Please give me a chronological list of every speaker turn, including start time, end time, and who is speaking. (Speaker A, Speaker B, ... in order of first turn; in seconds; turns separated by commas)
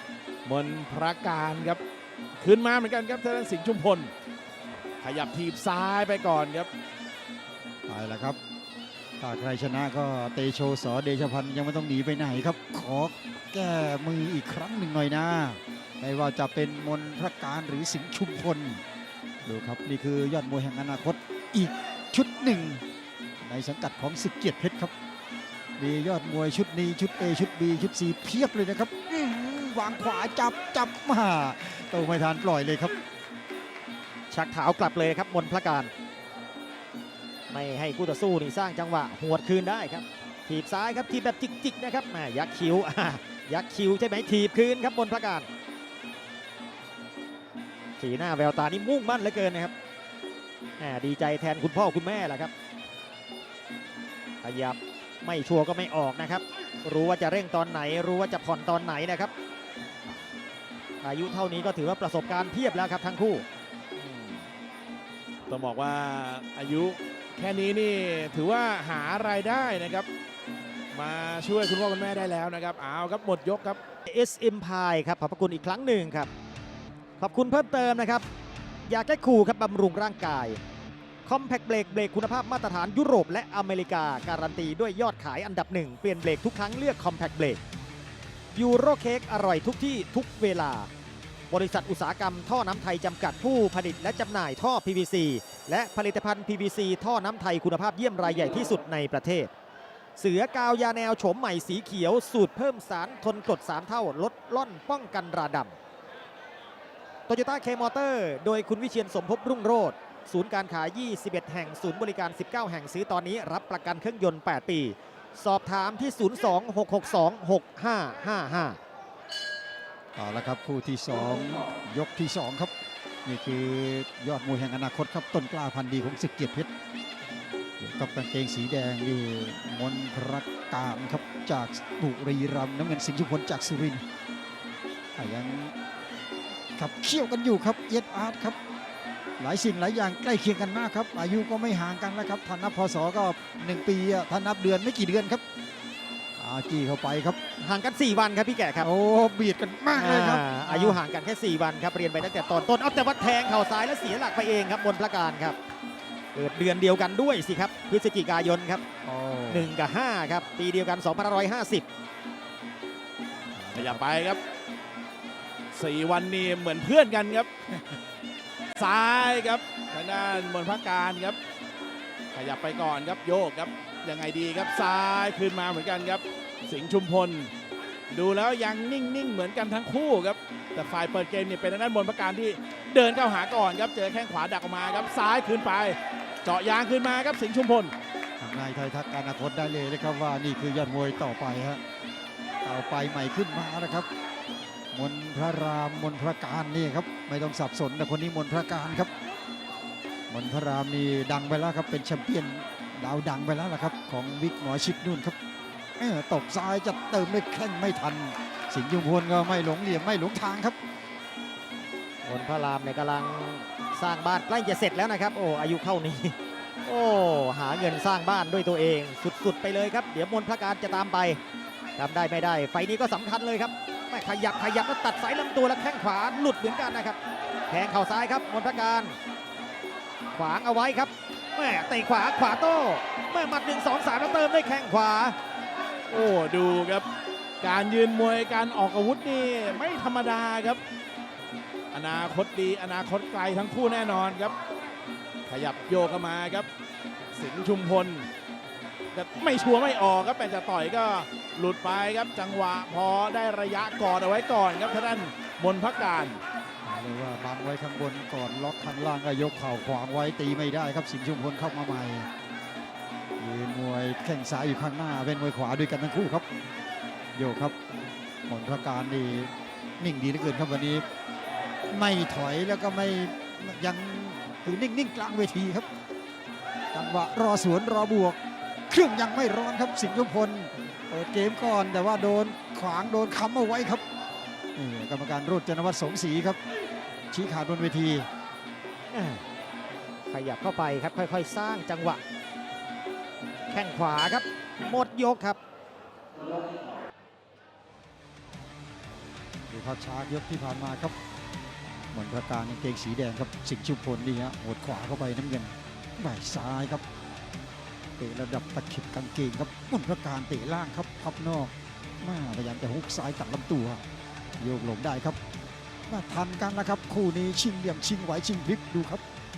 Speaker A: 0.5-1.8, Speaker A: 2.4-4.1, Speaker A: 5.0-6.7, Speaker B: 7.9-8.4, Speaker B: 9.2-18.8, Speaker B: 19.4-22.8, Speaker B: 23.4-24.9, Speaker B: 25.8-33.0, Speaker C: 34.3-35.9, Speaker C: 37.5-45.5, Speaker C: 48.0-49.7, Speaker C: 50.8-52.5, Speaker C: 54.4-59.3, Speaker C: 61.0-63.5, Speaker A: 64.0-64.5, Speaker A: 65.5-70.1, Speaker A: 70.9-73.8, Speaker C: 74.1-76.3, Speaker C: 77.2-78.3, Speaker C: 78.9-80.6, Speaker C: 81.2-87.6, Speaker C: 88.5-90.9, Speaker C: 91.5-99.5, Speaker C: 100.2-105.7, Speaker C: 107.3-118.8, Speaker B: 120.2-122.7, Speaker B: 123.2-126.7, Speaker B: 127.8-134.0, Speaker B: 135.2-135.7, Speaker B: 136.8-138.6, Speaker B: 139.4-145.4, Speaker B: 146.4-147.4, Speaker C: 147.6-148.9, Speaker B: 148.8-151.0, Speaker C: 149.9-155.6, Speaker C: 156.3-158.8, Speaker B: 159.1-159.7, Speaker C: 159.5-161.9, Speaker B: 163.6-164.0, Speaker A: 163.7-164.4, Speaker A: 165.7-167.5, Speaker A: 168.8-171.4, Speaker A: 172.3-177.5, Speaker A: 178.1-187.9, Speaker B: 188.4-191.8, Speaker B: 192.6-194.1, Speaker B: 194.9-199.1, Speaker B: 200.3-205.4, Speaker B: 206.0-210.8, Speaker C: 212.2-221.4, Speaker C: 222.0-227.2, Speaker C: 227.7-229.2, Speaker C: 230.3-235.4, Speaker A: 236.1-237.1, Speaker A: 237.6-240.8, Speaker A: 241.9-244.5, Speaker A: 245.5-246.7, Speaker A: 247.3-248.3, Speaker A: 249.1-256.4, Speaker B: 256.8-262.3, Speaker B: 263.4-266.5, Speaker B: 267.4-267.8, Speaker B: 268.5-271.1, Speaker B: 271.9-275.9, Speaker B: 276.9-278.4, Speaker B: 278.9-284.0, Speaker B: 284.8-286.6, Speaker B: 287.3-288.3, Speaker C: 289.1-289.4, Speaker C: 290.3-292.2, Speaker C: 293.7-295.6, Speaker B: 299.7-301.1, Speaker B: 302.1-307.0, Speaker B: 308.2-314.0, Speaker B: 314.6-315.4, Speaker B: 316.1-319.2